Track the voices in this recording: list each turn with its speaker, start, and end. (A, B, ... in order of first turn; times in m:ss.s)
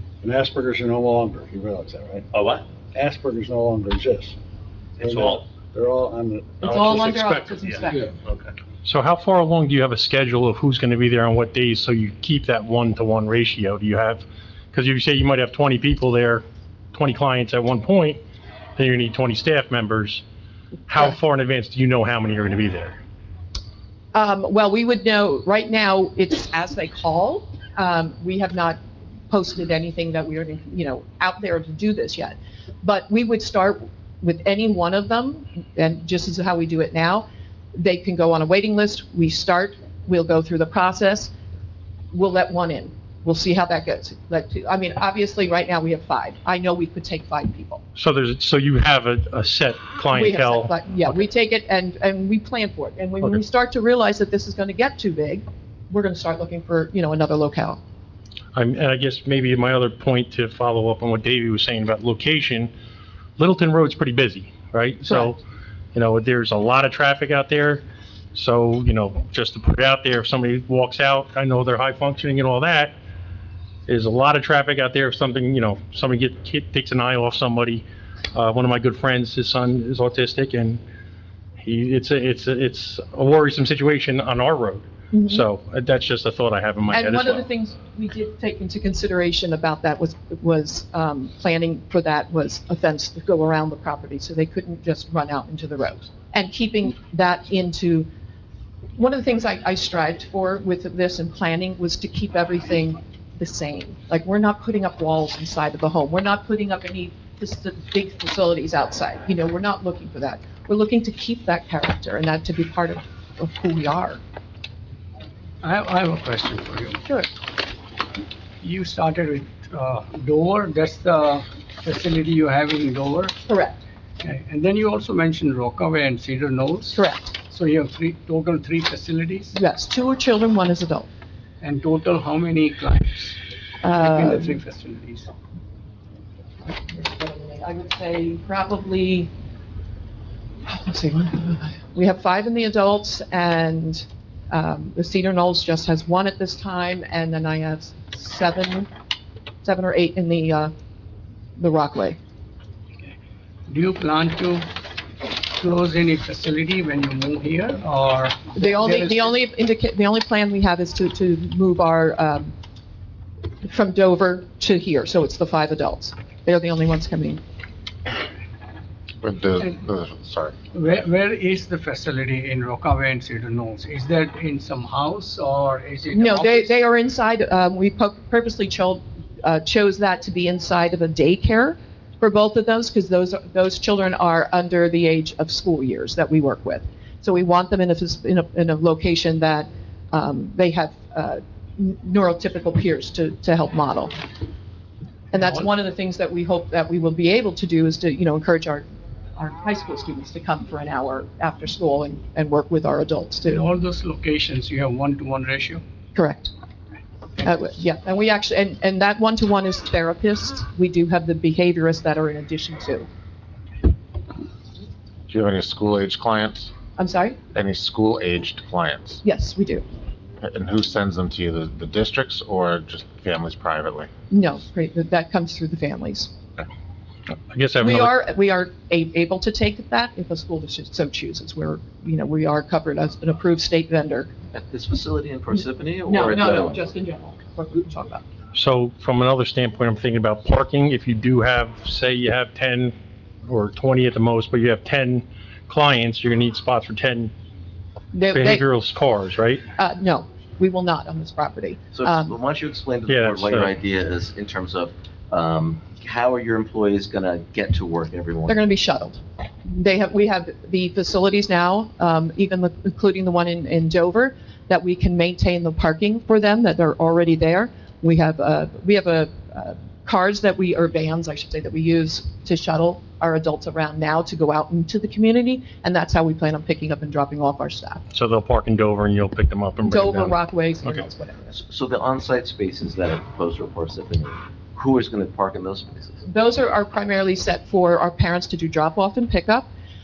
0:00.2-0:02.3 A
0:02.3-0:02.6 B
0:02.9-0:04.4 A
0:05.0-0:05.4 B
0:05.0-0:07.3 A
0:06.6-0:08.1 C
0:06.6-0:08.5 B
0:08.8-0:18.2 D
0:18.8-0:20.2 D
0:20.9-0:23.0 D
0:24.1-0:41.3 C
0:42.1-0:47.8 C
0:48.0-0:51.1 D
0:50.1-0:57.8 C
0:58.5-1:02.7 D
1:03.4-1:05.4 D
1:05.0-1:05.3 C
1:05.9-1:07.8 D
1:08.3-1:12.9 D
1:13.9-1:20.8 D
1:21.6-1:27.4 D
1:25.1-1:25.4 C
1:26.9-1:38.1 C
1:38.9-1:54.2 C
1:55.6-1:57.0 E
1:58.6-2:03.3 E
2:03.4-2:03.8 C
2:04.2-2:09.6 E
2:06.9-2:07.3 C
2:09.5-2:11.1 C
2:11.6-2:15.3 E
2:13.8-2:14.6 C
2:16.7-2:19.3 C
2:20.7-2:28.9 C
2:29.6-2:30.7 C
2:31.6-2:32.2 C
2:33.7-2:34.7 E
2:35.2-2:39.3 E
2:38.5-2:42.5 C
2:43.6-2:47.4 C
2:49.2-2:50.6 F
2:50.7-2:56.8 E
2:56.1-3:14.1 C
3:15.3-3:23.6 C
3:23.4-3:25.8 E
3:26.1-3:26.5 C
3:27.4-3:33.1 C
3:35.3-3:36.7 F
3:37.0-3:37.4 C
3:37.5-3:39.2 F
3:39.2-3:39.8 C
3:40.4-3:44.1 F
3:44.3-3:46.3 C
3:47.5-3:48.1 D
3:47.8-3:54.3 C
3:54.5-3:56.8 G
3:56.0-3:58.2 C
3:58.5-4:07.3 D
4:08.1-4:08.7 C
4:08.3-4:09.6 D
4:09.8-4:12.3 C
4:11.9-4:18.6 G
4:13.1-4:13.7 D
4:18.5-4:38.0 C
4:38.1-4:41.0 D
4:39.8-4:41.5 C
4:41.5-4:46.2 G
4:46.2-4:49.7 C